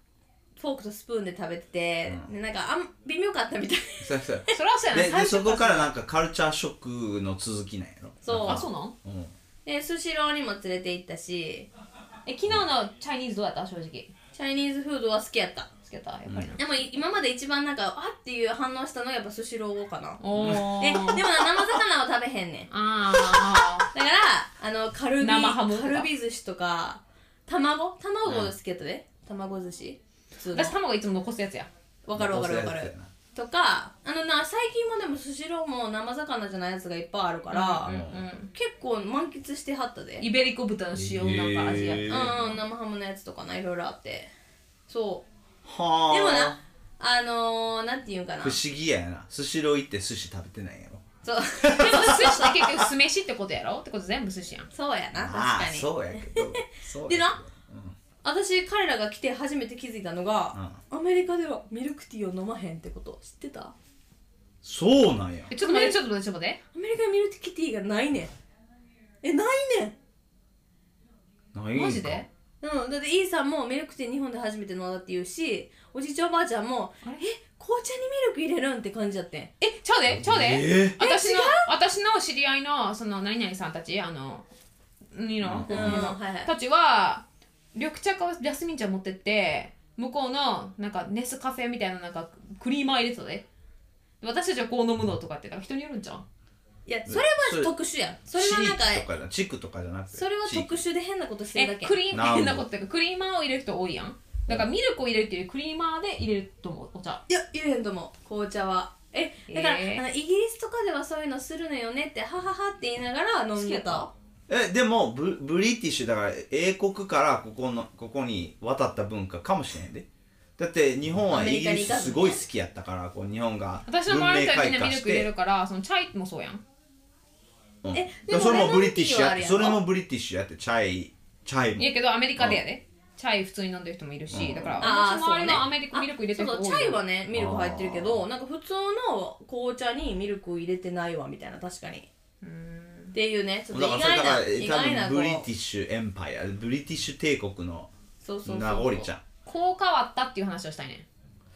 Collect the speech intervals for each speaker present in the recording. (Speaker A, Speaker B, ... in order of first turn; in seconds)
Speaker A: 0.6-4.5, 8.2-8.7, 9.7-11.7, 14.3-15.7, 16.6-22.7, 23.9-30.8, 32.1-40.2, 42.1-44.3, 44.9-45.3, 46.1-48.6, 51.2-52.2, 54.7-57.4, 58.2-63.7, 65.6-66.0, 66.7-68.3, 69.2-70.0, 72.6-79.5, 81.0-81.7, 85.7-86.5, 96.9-99.1, 100.1-102.0, 107.3-114.1, 121.3-122.4, 127.9-129.8, 134.8-142.1, 143.1-145.5, 148.2-149.1
Speaker B: 4.0-9.3, 20.4-20.7, 28.3-28.5, 32.2-33.1, 37.9-38.3, 41.0-42.5, 45.6-46.6, 48.4-51.1, 51.6-52.9, 55.2-58.0, 60.5-60.8, 64.6-65.5, 71.5-72.2, 80.1-81.0, 85.4-86.1, 97.1-97.7, 98.3-100.8, 102.1-102.6, 114.5-120.1, 120.6-125.3, 127.8-132.6, 134.3-134.9, 137.3-138.2, 143.7-147.9, 148.4-149.2
Speaker C: 4.5-5.9, 8.4-8.9, 12.3-14.1, 15.8-16.6, 20.2-21.4, 22.7-23.9, 25.2-26.1, 30.5-31.7, 37.5-38.5, 40.2-42.6, 51.7-54.7, 65.5-66.6, 71.7-72.3, 77.0-77.3, 79.6-84.5, 85.1-87.2, 87.8-93.5, 94.2-96.2, 101.5-107.2, 109.5-110.0, 113.6-114.1, 123.9-126.6, 131.8-137.0, 142.4-143.2, 149.5-151.1